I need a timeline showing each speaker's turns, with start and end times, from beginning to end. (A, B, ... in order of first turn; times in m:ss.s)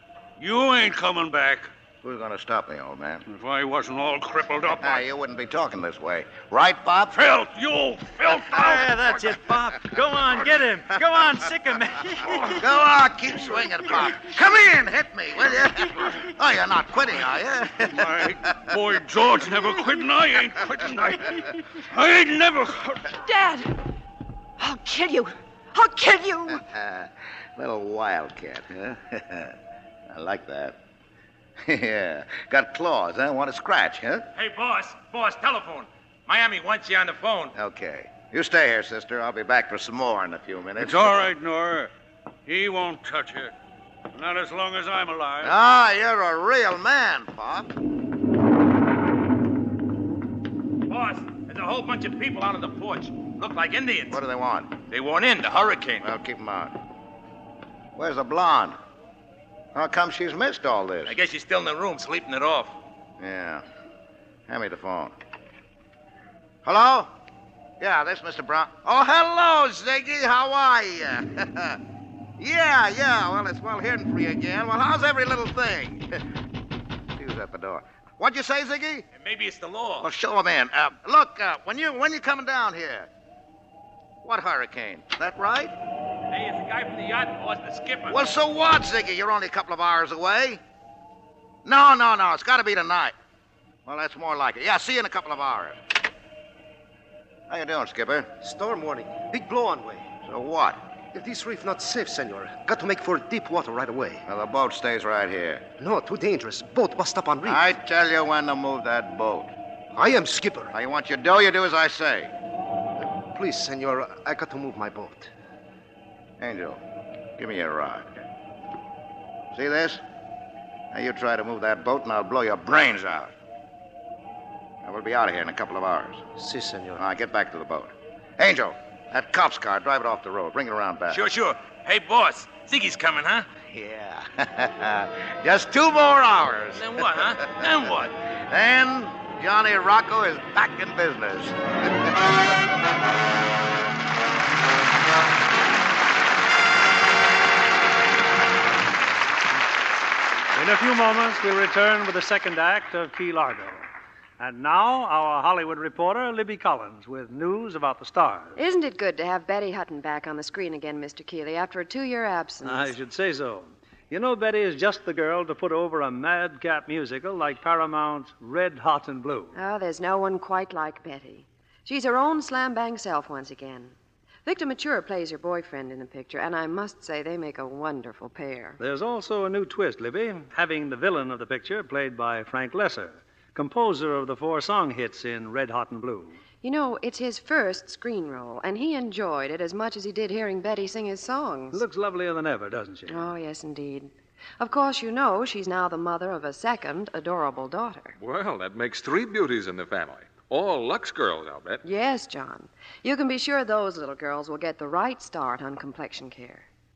0:00.4-0:01.7 A
0:02.0-0:03.2 B
0:03.3-0:05.0 A
0:04.7-0:07.2 B
0:07.1-0:09.4 A
0:08.7-0:12.1 C
0:12.6-0:18.2 B
0:17.9-0:23.1 A
0:23.2-0:23.8 D
0:24.6-0:26.6 D
0:26.6-0:29.6 B
0:30.1-0:30.8 B
0:31.6-0:34.3 B
0:34.4-0:37.5 E
0:37.6-0:41.3 B
0:40.8-0:41.9 A
0:42.5-0:43.5 A
0:44.1-0:45.6 A
0:45.4-0:47.7 B
0:50.9-0:54.2 E
0:54.1-0:54.7 B
0:54.9-0:56.1 E
0:56.0-0:56.7 B
0:58.0-0:58.8 B
0:59.8-1:01.2 B
1:01.1-1:02.8 E
1:03.2-1:03.6 B
1:04.5-1:05.1 B
1:06.6-1:07.1 B
1:07.8-1:11.8 B
1:12.4-1:16.2 B
1:17.2-1:19.1 B
1:19.1-1:20.1 E
1:20.0-1:23.1 B
1:24.2-1:25.7 B
1:26.3-1:28.2 E
1:28.1-1:30.6 B
1:31.6-1:33.1 B
1:33.9-1:35.8 B
1:37.5-1:38.3 B
1:38.4-1:40.1 F
1:40.2-1:40.8 B
1:41.1-1:44.2 F
1:44.3-1:45.6 B
1:45.8-1:47.6 F
1:47.4-1:49.5 B
1:49.9-1:50.7 F
1:50.7-1:52.3 B
1:53.3-1:55.3 F
1:56.4-1:56.8 B
1:57.4-1:58.1 B
1:59.5-2:00.0 B
2:00.9-2:03.3 B
2:04.8-2:06.2 B
2:06.4-2:07.0 F
2:07.0-2:11.2 B
2:11.1-2:13.5 E
2:13.7-2:17.9 B
2:16.7-2:18.1 E
2:18.5-2:22.2 B
2:30.6-2:33.8 G
2:34.4-2:38.6 G
2:38.6-2:43.0 H
2:42.6-2:49.5 G
2:49.6-2:53.9 H
2:54.4-2:58.8 H
2:58.8-3:06.4 G
3:06.6-3:11.8 H
3:11.7-3:13.3 G
3:13.1-3:18.2 H
3:18.2-3:21.8 I
3:21.8-3:26.7 H